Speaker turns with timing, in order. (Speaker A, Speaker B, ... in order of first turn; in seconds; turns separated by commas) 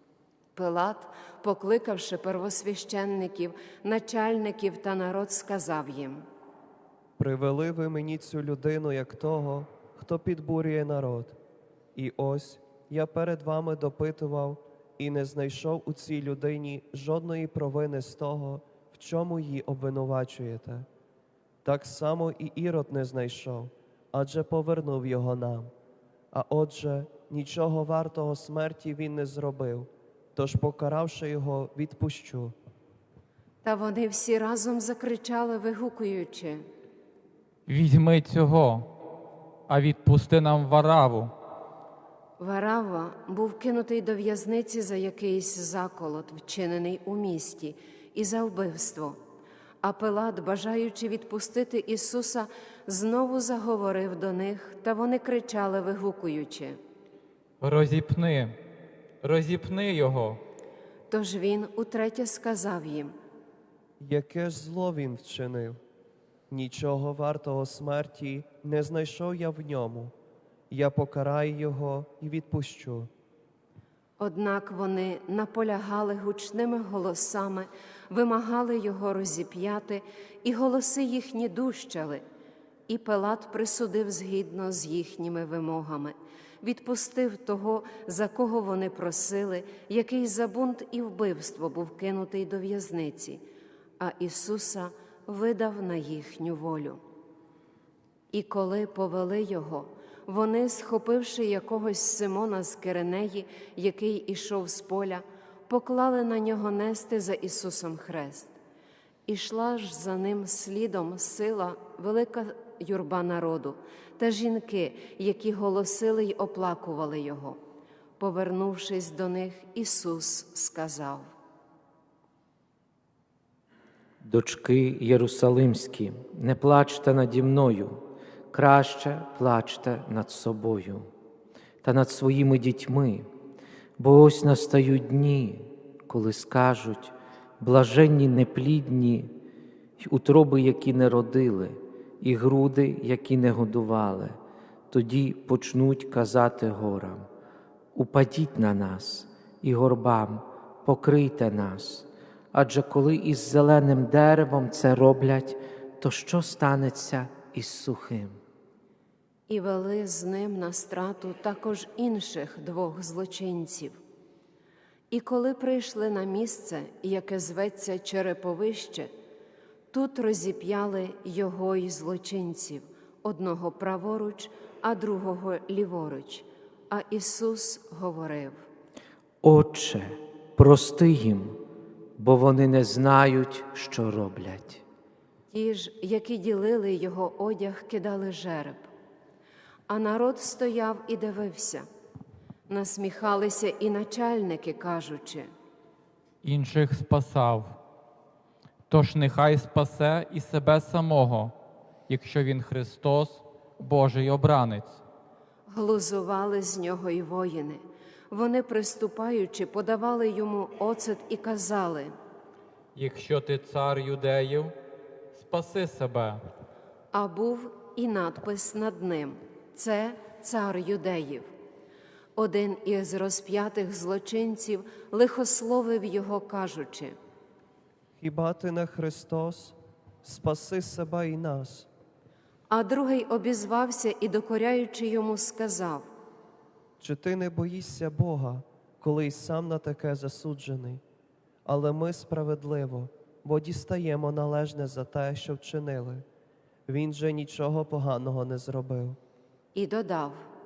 Speaker A: 0.6-6.3, Speaker B: 7.2-11.4, Speaker B: 11.9-20.9, Speaker B: 21.6-25.7, Speaker B: 26.3-32.6, Speaker A: 33.6-36.6, Speaker C: 37.7-38.9, Speaker C: 39.7-41.3, Speaker A: 42.4-49.2, Speaker A: 49.8-56.8, Speaker C: 57.6-58.6, Speaker C: 59.2-60.4, Speaker A: 61.1-63.1, Speaker B: 64.0-65.8, Speaker B: 66.5-70.1, Speaker B: 70.7-73.1, Speaker A: 74.2-82.2, Speaker A: 82.9-93.4, Speaker A: 94.0-97.0, Speaker A: 98.3-108.5, Speaker A: 109.3-117.6, Speaker A: 118.2-121.3, Speaker D: 124.2-128.0, Speaker D: 128.5-131.1, Speaker D: 131.8-133.3, Speaker D: 134.0-139.3, Speaker D: 140.0-144.4, Speaker D: 144.9-147.3, Speaker D: 147.9-158.4, Speaker A: 159.5-164.0, Speaker A: 165.1-169.1, Speaker A: 169.9-178.6, Speaker D: 179.4-181.6, Speaker D: 182.2-184.8, Speaker A: 185.5-188.9, Speaker A: 189.9-191.9, Speaker A: 192.7-195.5, Speaker C: 196.4-197.8, Speaker C: 198.9-201.5, Speaker C: 202.1-205.0, Speaker A: 205.7-212.1, Speaker C: 212.9-214.7, Speaker C: 215.3-216.4, Speaker A: 217.1-221.5, Speaker A: 222.4-227.2, Speaker B: 228.2-231.9, Speaker A: 232.7-236.1, Speaker B: 237.0-241.0, Speaker B: 241.7-246.2, Speaker B: 246.9-249.2, Speaker A: 249.8-250.5